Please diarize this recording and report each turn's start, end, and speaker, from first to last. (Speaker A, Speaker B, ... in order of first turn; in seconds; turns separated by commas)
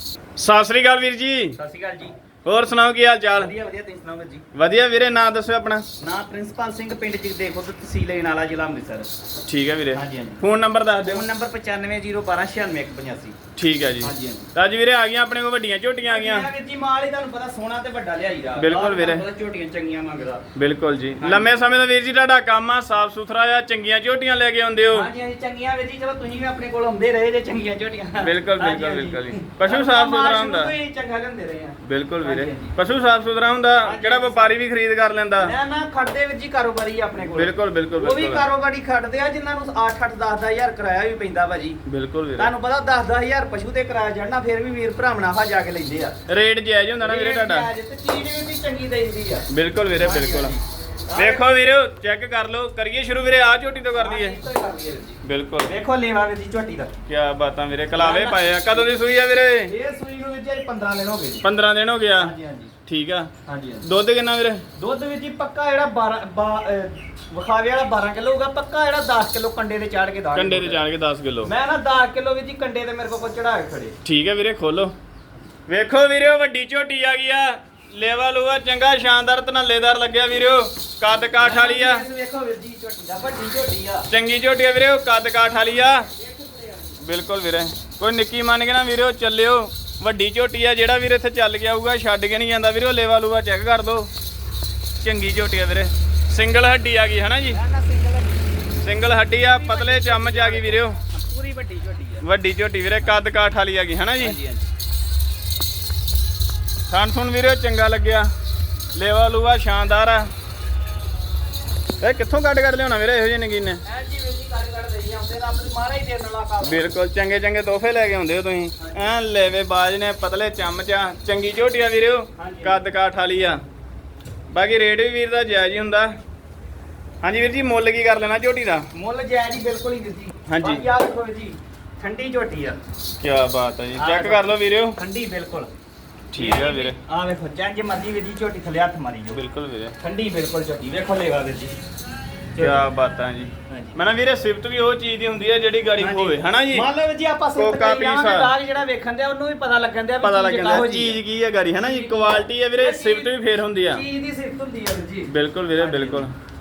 Speaker A: 0.4-1.6, Speaker B: 1.5-2.1, Speaker A: 2.4-3.5, Speaker B: 3.3-4.4, Speaker A: 4.5-5.8, Speaker B: 6.0-9.1, Speaker A: 9.5-11.2, Speaker B: 9.9-10.4, Speaker B: 11.0-13.3, Speaker A: 13.6-16.5, Speaker B: 14.0-14.4, Speaker B: 16.0-20.4, Speaker A: 18.6-19.2, Speaker A: 20.5-25.1, Speaker B: 21.2-21.5, Speaker B: 24.9-32.7, Speaker A: 28.2-30.7, Speaker A: 31.8-35.5, Speaker B: 33.8-34.5, Speaker B: 35.4-41.8, Speaker A: 37.3-38.5, Speaker A: 41.9-42.5, Speaker B: 42.4-46.2, Speaker A: 46.3-47.7, Speaker B: 47.0-49.5, Speaker A: 49.5-50.5, Speaker B: 50.0-51.4, Speaker A: 51.1-54.4, Speaker B: 54.0-56.9, Speaker A: 55.2-55.7, Speaker A: 57.1-59.7, Speaker B: 58.0-58.9, Speaker B: 59.7-61.4, Speaker A: 61.4-62.3, Speaker B: 62.2-62.7, Speaker A: 62.9-63.3, Speaker B: 63.5-63.8, Speaker A: 63.8-64.6, Speaker B: 64.8-70.8, Speaker A: 70.3-71.5, Speaker B: 71.4-73.9, Speaker A: 74.0-74.9, Speaker A: 75.7-82.0, Speaker B: 81.1-84.1, Speaker A: 84.1-86.1, Speaker B: 86.1-87.0, Speaker A: 87.0-94.1, Speaker A: 95.0-97.6, Speaker B: 97.5-98.5, Speaker A: 98.8-101.0, Speaker B: 99.3-102.2, Speaker A: 102.2-104.4, Speaker B: 104.2-104.6, Speaker A: 106.9-108.3, Speaker A: 108.9-110.3, Speaker A: 112.0-113.8, Speaker B: 113.8-116.9, Speaker A: 116.6-123.6, Speaker B: 118.8-119.1, Speaker B: 122.3-122.8, Speaker A: 124.5-126.1, Speaker A: 127.2-128.9, Speaker B: 128.9-132.8, Speaker A: 130.5-130.8, Speaker A: 133.2-135.0, Speaker B: 134.0-135.7, Speaker A: 136.3-137.0, Speaker B: 136.3-139.4, Speaker A: 139.3-139.9, Speaker B: 140.0-141.7, Speaker B: 142.5-142.8, Speaker A: 142.6-146.9, Speaker B: 143.7-144.0, Speaker B: 146.0-151.2, Speaker A: 147.6-148.5, Speaker A: 150.2-154.0, Speaker B: 151.8-153.3, Speaker B: 153.9-156.3, Speaker A: 155.3-156.3